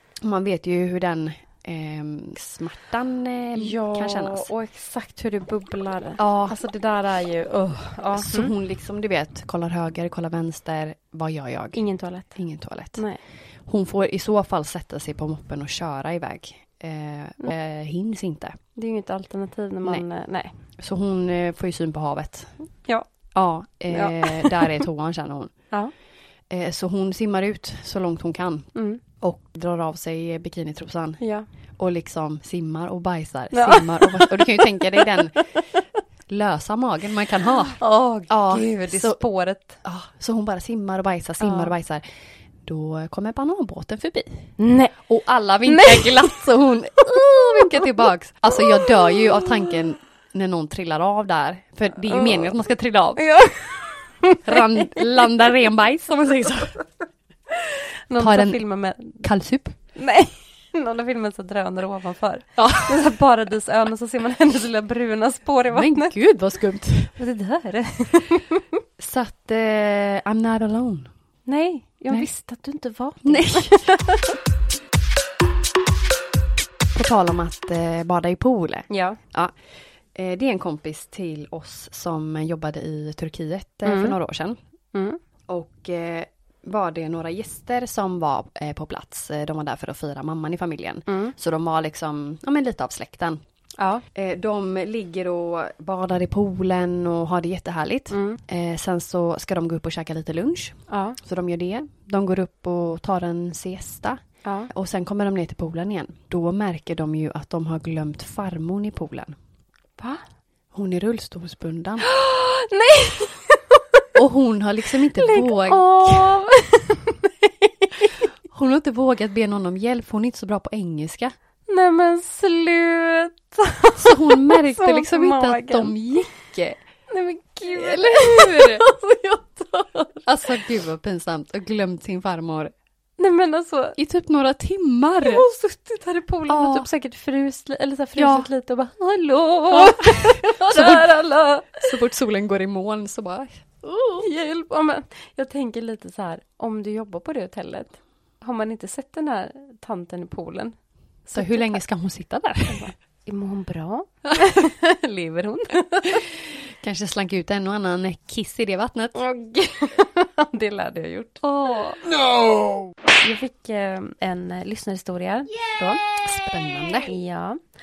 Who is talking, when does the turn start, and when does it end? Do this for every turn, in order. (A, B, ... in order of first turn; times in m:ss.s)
0:00.2-0:04.5 A
0:03.6-0:08.5 B
0:06.2-0:06.6 A
0:08.1-0:13.0 A
0:11.7-0:12.4 B
0:13.0-0:13.2 B
0:13.7-0:18.6 A
0:18.8-0:20.5 B
0:20.8-0:22.5 A
0:23.3-0:25.5 A
0:23.9-0:24.8 B
0:26.5-0:31.2 A
0:28.8-0:29.0 B
0:31.2-0:31.5 B
0:31.8-0:35.5 A
0:33.5-0:35.0 B
0:35.5-0:35.8 B
0:36.3-0:42.0 A
0:37.7-0:39.8 B
0:41.4-0:41.7 B
0:42.6-0:53.3 A
0:44.6-0:45.0 B
0:45.7-0:46.4 B
0:48.7-0:49.7 B
0:52.1-0:52.5 B
0:53.2-0:55.2 B
0:54.4-0:56.8 A
0:57.6-0:59.2 B
0:58.2-0:59.8 A
1:00.0-1:06.1 B
1:02.6-1:03.0 A
1:05.7-1:07.2 A
1:07.2-1:08.6 B
1:09.0-1:11.1 A
1:11.5-1:14.4 B
1:13.2-1:13.8 A
1:16.9-1:19.6 A
1:18.9-1:19.2 B
1:20.1-1:24.6 A
1:23.8-1:24.2 B
1:24.9-1:25.2 B
1:25.5-1:33.4 A
1:31.1-1:31.3 B
1:33.8-1:34.0 B
1:34.2-1:49.4 A
1:38.1-1:38.4 B
1:40.9-1:41.2 B
1:44.4-1:44.7 B
1:50.0-1:50.2 B
1:50.7-1:52.0 A
1:52.0-1:54.0 B
1:54.2-1:56.4 A
1:55.2-1:58.2 B
1:58.5-2:01.3 A
2:01.7-2:06.0 B
2:04.0-2:06.8 A
2:07.1-2:10.2 B
2:07.6-2:08.8 A
2:10.2-2:12.7 A
2:13.2-2:14.0 B
2:14.0-2:15.4 A
2:15.2-2:21.9 B
2:16.5-2:16.9 A
2:18.2-2:18.5 A
2:19.7-2:21.2 A
2:21.8-2:24.3 A
2:24.2-2:31.8 B
2:31.3-2:32.9 A
2:32.7-2:36.3 B
2:36.8-2:39.2 A
2:39.2-2:41.9 B
2:41.4-2:42.0 A
2:43.2-2:46.0 B
2:46.2-2:47.2 A
2:47.1-2:47.6 B